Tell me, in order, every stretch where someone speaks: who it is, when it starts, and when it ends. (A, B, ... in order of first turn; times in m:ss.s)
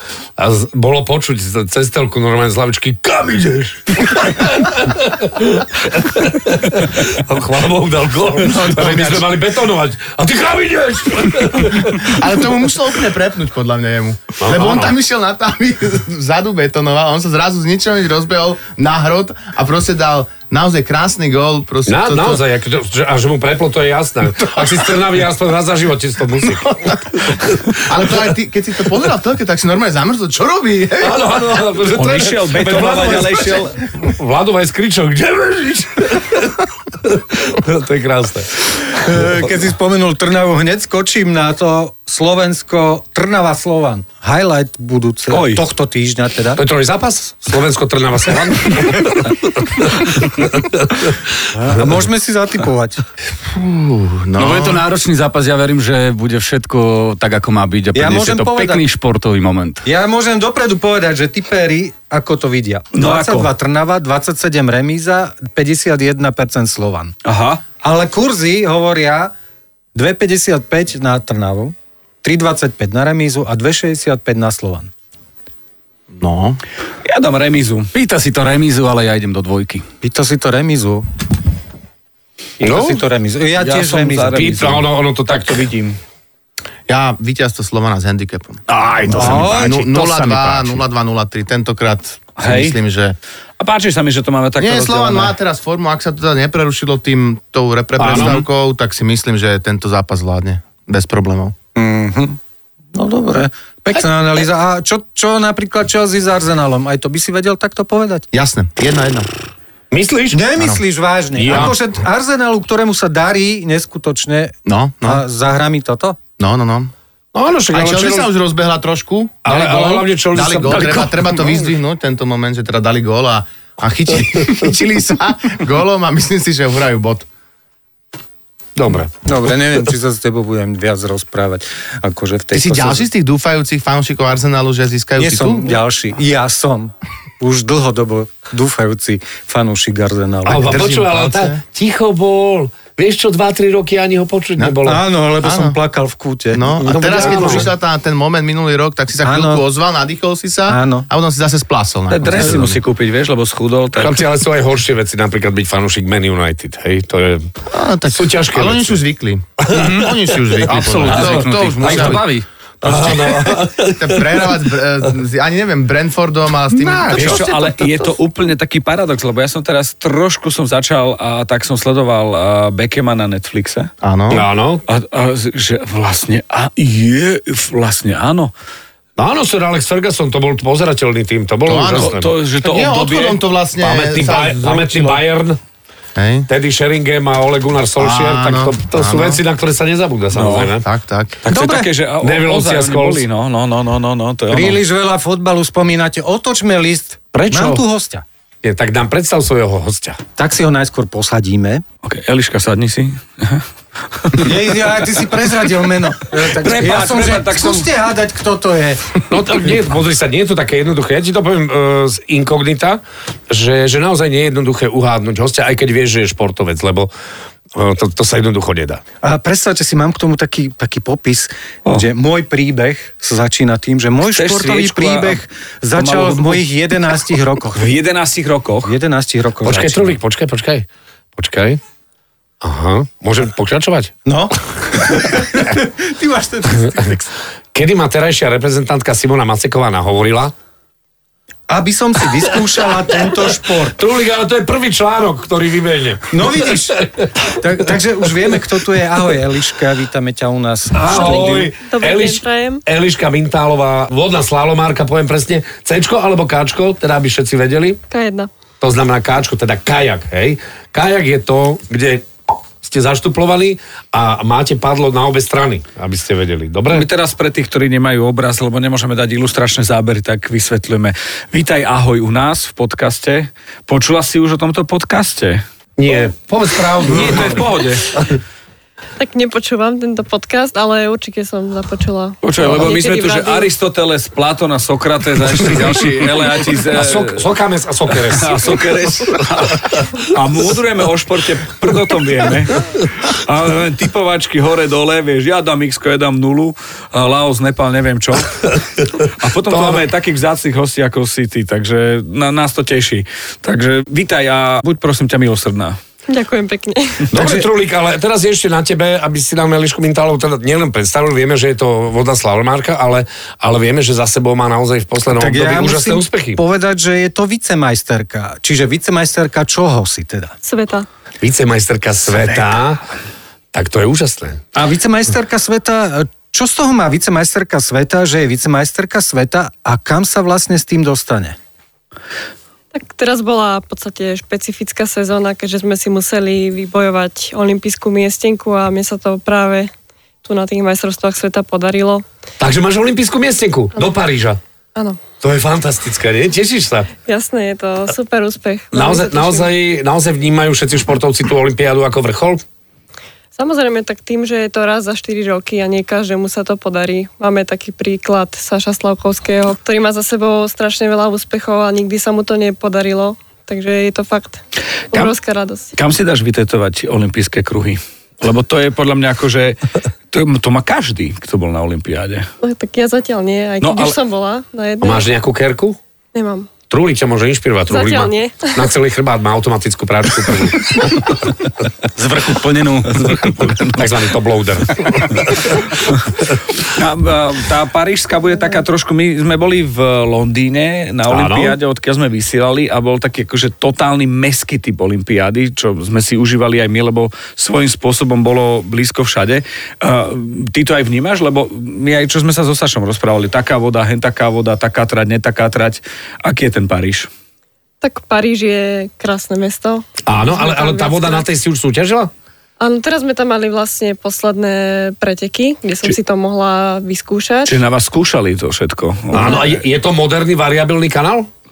0:00.4-0:12.2 A
0:08.4-0:09.3 B
0:11.9-0:22.4 B
0:14.4-0:14.9 A
0:21.9-0:27.7 A
0:27.8-0:31.4 B
0:31.0-0:38.5 A
0:31.9-0:33.8 C
0:38.9-0:46.6 D
0:45.3-0:45.6 C
0:46.6-0:51.9 A
0:51.6-0:53.0 D
0:53.5-0:54.8 B
0:54.4-0:59.8 E
0:58.0-0:58.8 D
0:59.8-1:07.2 D
1:02.9-1:03.5 C
1:07.2-1:07.6 C
1:07.8-1:09.3 D
1:10.0-1:14.9 D
1:16.2-1:16.6 B
1:17.0-1:17.9 C
1:17.9-1:19.9 E
1:20.0-1:21.0 D
1:22.6-1:23.0 A
1:22.6-1:24.7 D
1:23.6-1:24.8 C
1:24.3-1:25.9 A
1:26.9-1:33.2 B
1:28.7-1:30.8 E
1:29.1-1:29.6 D
1:32.4-1:32.8 C
1:33.6-1:35.4 C
1:34.6-1:41.6 B
1:38.0-1:38.4 A
1:41.8-1:42.4 D
1:42.9-1:48.3 D
1:48.3-1:49.3 B
1:49.9-1:50.5 A
1:50.3-1:56.2 D
1:51.4-1:51.8 A
1:54.7-1:55.2 B
1:56.4-1:56.9 B
1:57.3-1:58.3 A
1:57.7-2:07.2 B
1:59.4-2:01.7 A
2:08.8-2:09.1 A
2:09.2-2:13.1 D
2:12.5-2:15.8 B
2:15.2-2:20.9 D
2:20.4-2:25.0 A
2:20.5-2:21.6 B
2:24.8-2:27.7 D
2:25.4-2:25.8 B
2:26.5-2:32.8 B
2:26.8-2:27.7 A
2:29.2-2:29.6 D
2:30.7-2:31.1 D
2:32.1-2:34.2 C
2:34.0-2:37.5 A
2:37.7-2:42.2 B
2:38.1-2:39.0 A
2:39.6-2:40.1 A
2:39.7-2:40.0 E
2:40.6-2:42.5 E
2:41.0-2:42.2 A
2:42.8-2:44.5 A
2:43.9-2:48.1 B
2:47.1-2:53.9 C
2:54.0-2:54.5 B
2:54.3-2:54.8 A
2:54.9-2:58.5 C
2:59.2-3:02.3 A
3:01.7-3:05.2 B
3:02.0-3:03.4 C
3:03.8-3:05.6 A
3:06.2-3:06.5 B
3:06.5-3:10.8 A
3:08.0-3:09.4 B
3:10.3-3:10.7 C
3:10.8-3:11.4 B
3:11.4-3:14.8 C
3:11.5-3:11.9 D
3:12.2-3:13.3 A
3:14.5-3:18.2 D
3:17.3-3:17.8 A
3:18.6-3:20.2 A
3:20.4-3:21.8 D
3:22.0-3:24.5 C
3:24.4-3:29.2 D
3:26.4-3:27.9 C
3:29.3-3:37.1 A
3:37.7-3:39.0 A
3:39.2-3:47.9 D
3:44.3-3:45.4 C
3:46.0-3:46.6 C
3:47.7-3:49.0 C
3:48.8-3:50.2 D
3:49.6-3:51.8 A
3:52.6-3:54.1 A
3:54.3-3:57.3 D
3:57.7-4:00.5 A
4:01.7-4:04.0 D
4:03.8-4:07.3 A
4:06.3-4:11.7 D
4:11.0-4:18.0 A
4:11.1-4:12.8 F
4:18.1-4:18.5 F
4:18.8-4:22.3 A
4:22.8-4:27.1 A
4:26.9-4:35.6 C
4:36.0-4:38.4 A
4:37.0-4:38.0 C
4:39.2-4:43.7 F
4:42.4-4:47.5 C
4:45.7-4:46.0 A
4:46.8-4:49.4 A
4:48.1-4:58.6 C
4:59.4-5:06.0 C
4:59.7-5:00.0 A
5:06.3-5:07.3 F
5:07.3-5:16.6 A
5:15.3-5:20.5 D
5:20.6-5:21.1 F
5:21.4-5:23.0 A
5:23.7-5:24.6 A
5:24.8-5:31.6 D
5:32.9-5:39.9 F
5:40.4-5:42.2 F
5:42.6-5:44.6 A
5:45.0-5:45.2 F
5:45.4-5:47.1 A
5:47.3-5:49.7 F
5:48.9-5:52.6 A
5:53.6-6:04.6 F
6:05.1-6:05.9 F
6:06.0-6:09.8 C
6:10.3-6:12.5 C
6:12.6-6:15.3 F
6:13.8-6:14.2 C
6:15.0-6:16.0 A
6:16.3-6:16.7 F
6:16.9-6:21.4 A
6:17.9-6:18.9 F
6:22.2-6:23.9 E
6:23.1-6:23.9 C
6:23.8-6:25.9 A
6:26.9-6:47.3 C
6:31.3-6:31.8 A
6:48.0-6:51.4 F
6:50.3-6:52.3 A
6:52.8-6:57.8 F
6:57.7-6:59.7 C
6:59.3-7:01.5 A